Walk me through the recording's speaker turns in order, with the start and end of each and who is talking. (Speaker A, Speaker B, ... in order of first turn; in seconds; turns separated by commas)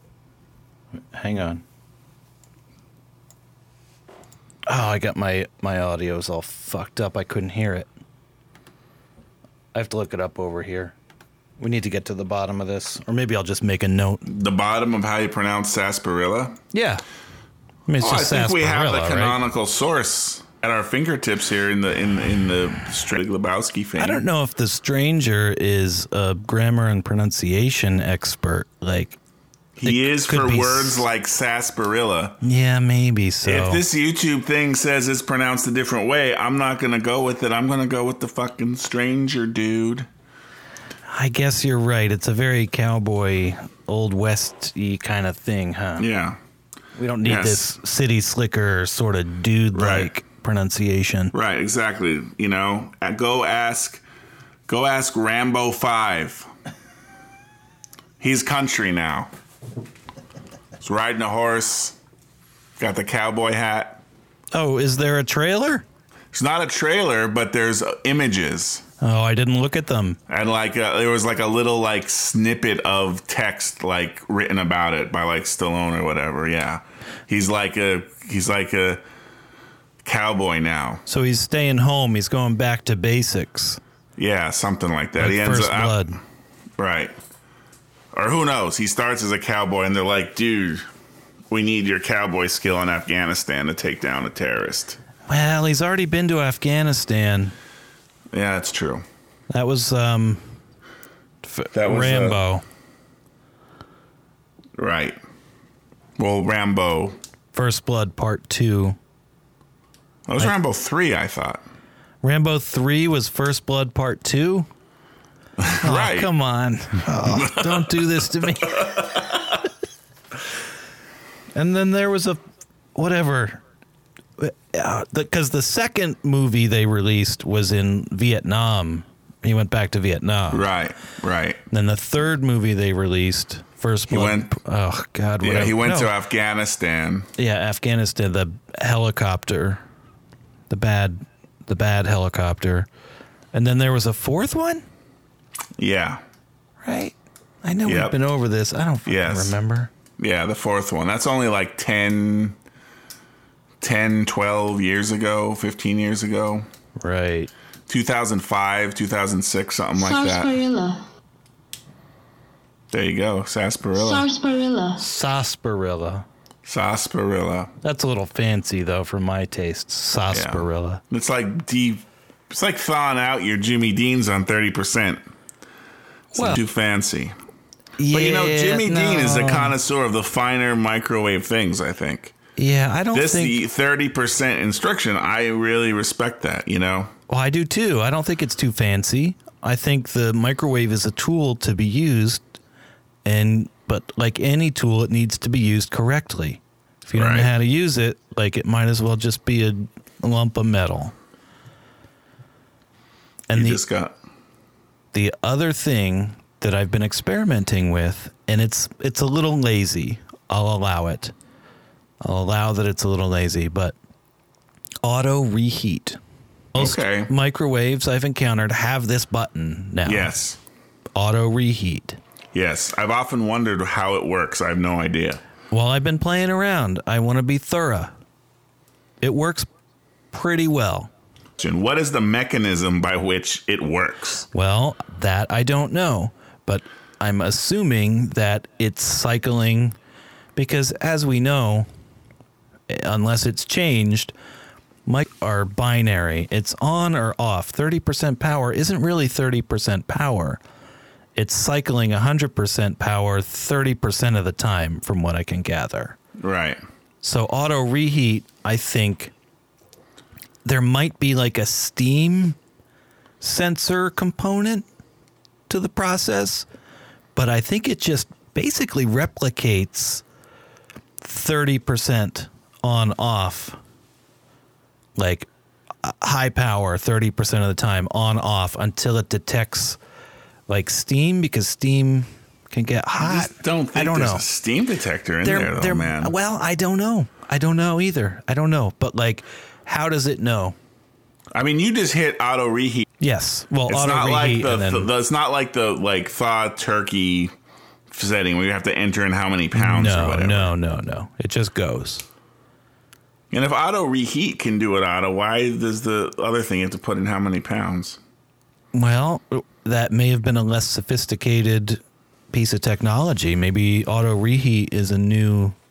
Speaker A: 1.1-1.6, Speaker A: 4.7-7.9, Speaker A: 9.7-10.9, Speaker A: 11.6-14.2, Speaker B: 14.2-16.6, Speaker A: 16.7-17.0, Speaker A: 17.9-19.4, Speaker B: 18.0-24.2, Speaker A: 24.0-29.2, Speaker B: 29.8-32.4, Speaker A: 29.8-31.1, Speaker A: 32.4-33.8, Speaker B: 33.4-40.1, Speaker A: 41.1-46.0, Speaker B: 46.0-46.4, Speaker A: 47.0-51.3, Speaker B: 47.2-47.7, Speaker B: 49.7-50.1, Speaker B: 51.3-54.0, Speaker B: 54.7-56.5, Speaker B: 58.2-59.3, Speaker B: 60.8-62.0, Speaker B: 62.8-64.0, Speaker A: 64.5-65.8, Speaker B: 66.3-68.8, Speaker A: 69.0-70.2, Speaker B: 70.3-79.0, Speaker B: 80.0-81.0, Speaker A: 81.1-83.8, Speaker B: 84.2-86.0, Speaker A: 85.2-86.2, Speaker B: 86.8-87.1, Speaker B: 88.1-90.8, Speaker B: 91.5-95.0, Speaker A: 95.3-97.5, Speaker B: 98.3-99.0, Speaker A: 99.5-100.4, Speaker A: 101.4-102.6, Speaker B: 101.7-102.4, Speaker B: 104.8-105.2, Speaker B: 106.2-107.2, Speaker A: 107.5-109.0, Speaker B: 110.3-111.6, Speaker A: 112.2-114.7, Speaker B: 115.6-116.3, Speaker A: 115.8-119.2, Speaker B: 117.2-119.4, Speaker A: 121.5-122.4, Speaker A: 122.9-123.6, Speaker A: 124.4-130.7, Speaker B: 130.5-131.6, Speaker A: 131.7-136.1, Speaker B: 134.1-134.5, Speaker B: 135.4-137.3, Speaker A: 137.4-139.8, Speaker A: 140.7-142.9, Speaker A: 143.5-144.8, Speaker B: 145.8-146.2, Speaker A: 146.8-149.9, Speaker B: 147.8-148.2, Speaker B: 149.1-149.6, Speaker B: 150.2-152.6, Speaker B: 153.8-156.7, Speaker A: 157.0-157.5, Speaker B: 157.9-160.6, Speaker C: 159.9-161.0, Speaker B: 162.9-164.3, Speaker C: 163.9-165.0, Speaker A: 165.0-166.2, Speaker B: 166.6-167.7, Speaker A: 167.8-171.0, Speaker B: 170.3-175.2, Speaker A: 176.3-176.6, Speaker B: 176.3-177.3, Speaker A: 178.0-179.8, Speaker B: 178.1-182.3, Speaker A: 182.6-183.6, Speaker B: 183.1-187.1, Speaker A: 187.3-192.4, Speaker A: 193.2-201.1, Speaker B: 197.1-197.5, Speaker A: 203.5-203.8, Speaker B: 203.5-204.2, Speaker A: 205.1-211.3, Speaker A: 212.2-213.9, Speaker A: 215.0-216.2, Speaker A: 216.7-220.3, Speaker B: 216.7-217.3, Speaker B: 220.0-220.6, Speaker A: 221.1-222.2, Speaker B: 222.5-225.4, Speaker A: 225.7-228.1, Speaker A: 229.2-229.7, Speaker A: 230.3-231.1, Speaker B: 231.6-234.5, Speaker A: 234.5-239.9, Speaker A: 240.6-241.9, Speaker A: 242.9-244.3, Speaker A: 245.1-250.6, Speaker A: 251.3-256.2, Speaker B: 256.4-256.8, Speaker A: 257.2-259.3, Speaker A: 260.6-262.6, Speaker A: 263.4-264.8, Speaker A: 265.7-266.7, Speaker A: 267.3-270.2, Speaker A: 271.2-273.8, Speaker A: 275.1-275.5, Speaker A: 276.0-280.0, Speaker A: 280.7-284.4, Speaker B: 283.2-286.3, Speaker A: 285.4-290.8, Speaker B: 291.5-293.1, Speaker A: 293.2-295.1, Speaker B: 293.9-297.5, Speaker B: 298.1-300.7, Speaker A: 299.7-302.2, Speaker B: 303.5-308.2, Speaker A: 308.9-312.0, Speaker A: 312.5-315.8